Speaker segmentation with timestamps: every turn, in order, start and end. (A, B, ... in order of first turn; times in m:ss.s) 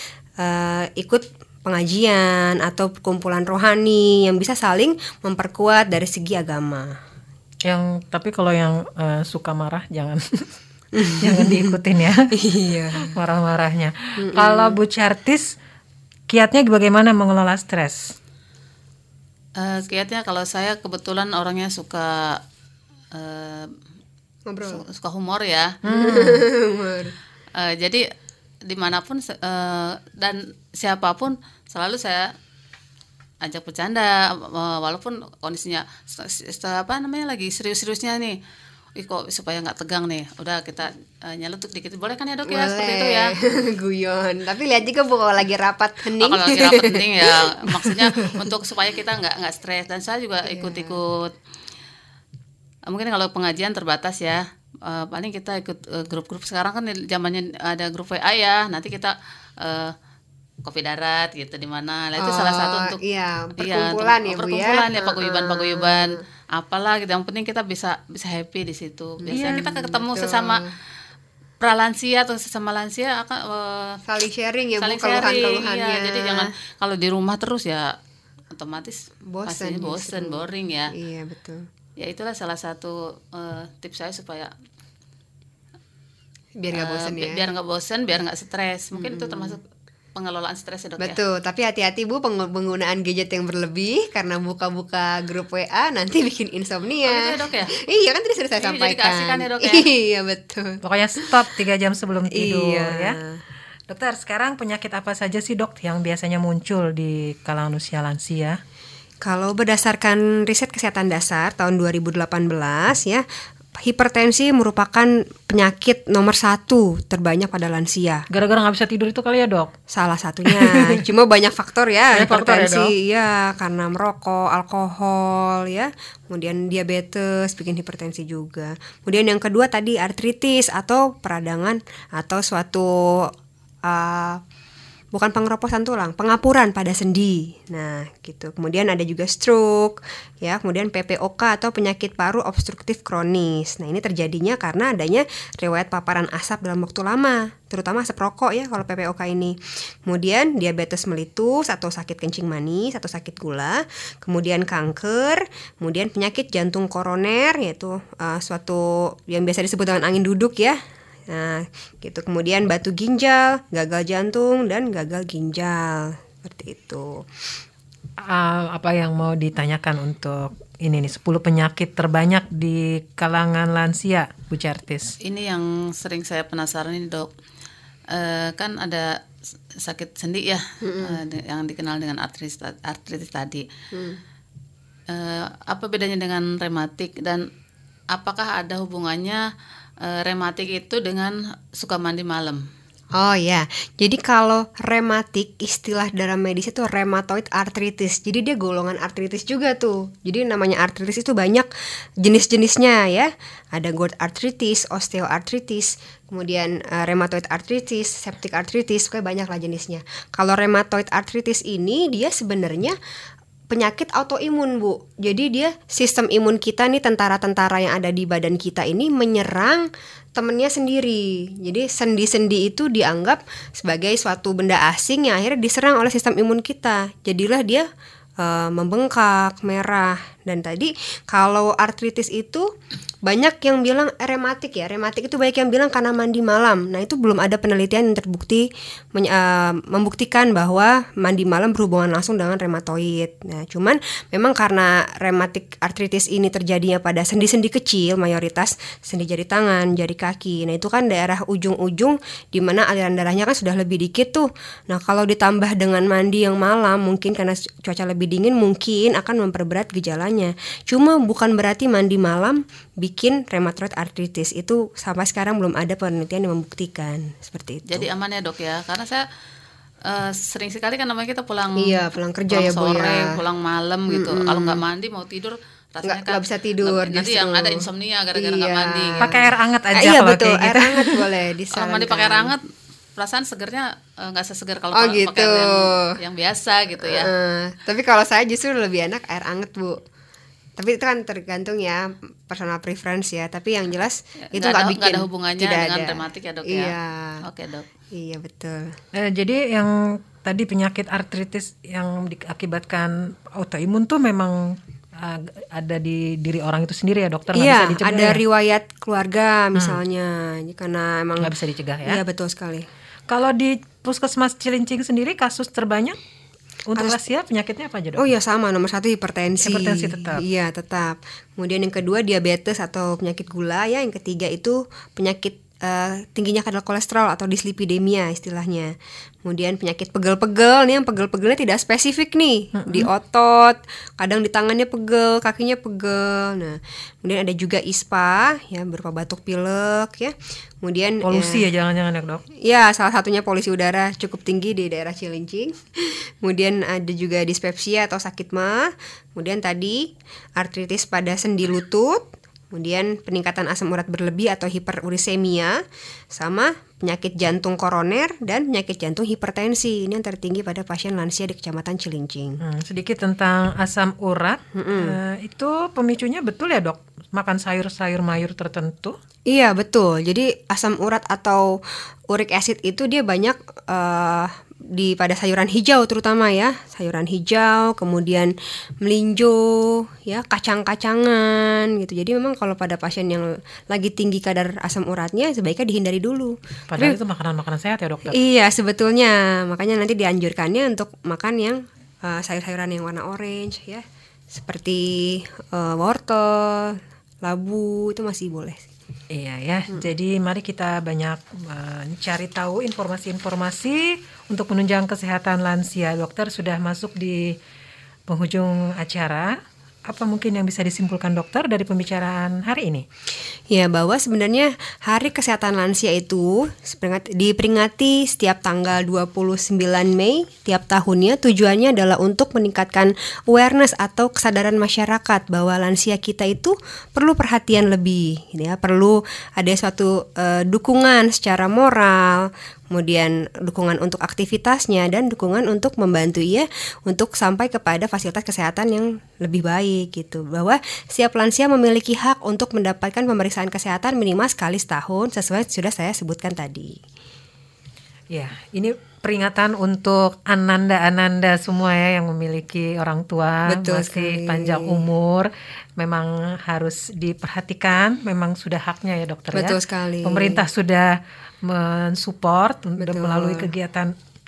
0:00.4-0:07.0 A
0:07.6-0:10.5 B
0:10.9-0:11.8 A
0:11.2-0:12.3 B
0:12.3-0:13.2 A
0:13.0-0:15.6 B
0:14.2-0:14.8 A
0:16.3-0:18.1 B
0:19.6-0:22.4 C
0:23.1-0:23.7 C
0:24.5-0:24.8 A
0:24.7-0:25.8 C
0:25.8-0:26.4 B
0:25.9-0:27.1 A
0:27.6-0:28.0 C
0:28.6-0:32.3 C
0:33.4-0:38.4 C
0:39.0-0:43.3 C
0:42.5-0:48.4 A
0:46.2-0:51.3 C
0:50.4-0:51.0 A
0:52.9-0:59.9 C
1:00.6-1:03.0 C
1:02.2-1:06.2 A
1:03.6-1:10.6 C
1:09.2-1:10.7 A
1:09.3-1:09.6 B
1:11.6-1:14.0 C
1:14.0-1:16.5 A
1:14.8-1:17.9 C
1:18.5-1:20.9 C
1:19.3-1:21.6 A
1:22.0-1:24.5 C
1:26.6-1:27.4 A
1:26.7-1:29.6 C
1:28.9-1:29.6 A
1:30.2-1:31.2 C
1:31.0-1:41.3 A
1:37.0-1:37.7 C
1:38.6-1:39.8 C
1:40.8-1:43.2 B
1:42.3-1:43.4 A
1:43.9-1:48.6 B
1:49.2-1:53.2 A
1:53.8-1:58.2 A
1:58.3-1:59.7 B
1:59.9-2:13.3 A
2:00.5-2:01.0 B
2:02.1-2:02.9 B
2:13.8-2:14.4 A
2:15.1-2:40.8 A
2:41.3-2:47.2 A
2:48.3-2:55.1 B
2:55.2-2:57.3 C
2:58.1-2:59.2 C
2:59.7-3:03.6 C
3:00.8-3:01.2 A
3:03.9-3:04.2 A
3:05.1-3:07.4 C
3:08.1-3:09.4 C
3:10.0-3:12.6 C
3:13.1-3:21.7 A
3:22.2-3:33.0 A
3:33.7-3:47.8 A
3:48.4-3:52.6 A
3:53.2-4:28.1 A
4:27.9-4:29.2 C
4:30.0-4:32.0 C
4:31.8-4:33.3 A
4:32.5-4:39.3 C
4:34.1-4:34.8 A
4:36.0-4:39.4 A
4:39.2-4:41.2 B
4:40.0-4:42.5 A
4:41.7-4:42.6 C
4:43.2-4:47.3 C
4:45.0-4:46.1 A
4:47.0-4:50.0 A
4:50.8-4:57.4 A
4:54.5-4:57.9 C
4:58.1-4:59.0 A
4:59.1-5:08.4 B
5:07.5-5:11.5 A
5:09.7-5:10.0 B
5:11.4-5:12.2 B
5:12.0-5:12.9 A
5:13.3-5:16.2 B
5:16.9-5:18.2 B
5:18.2-5:28.9 A
5:19.6-5:20.4 B
5:29.4-5:41.6 A
5:32.7-5:33.1 B
5:41.2-5:42.4 B
5:42.6-5:55.8 A
5:56.3-6:02.6 A
6:02.6-6:09.2 B
6:04.7-6:05.2 A
6:09.5-6:11.7 A
6:12.3-6:27.2 A
6:26.9-6:28.4 B
6:28.3-6:38.8 A
6:39.3-6:47.6 B
6:48.3-6:49.6 B
6:50.1-6:53.0 B
6:53.7-7:27.0 A
7:28.3-7:44.1 B
7:33.7-7:35.0 A
7:39.5-7:40.6 A
7:43.0-7:43.7 A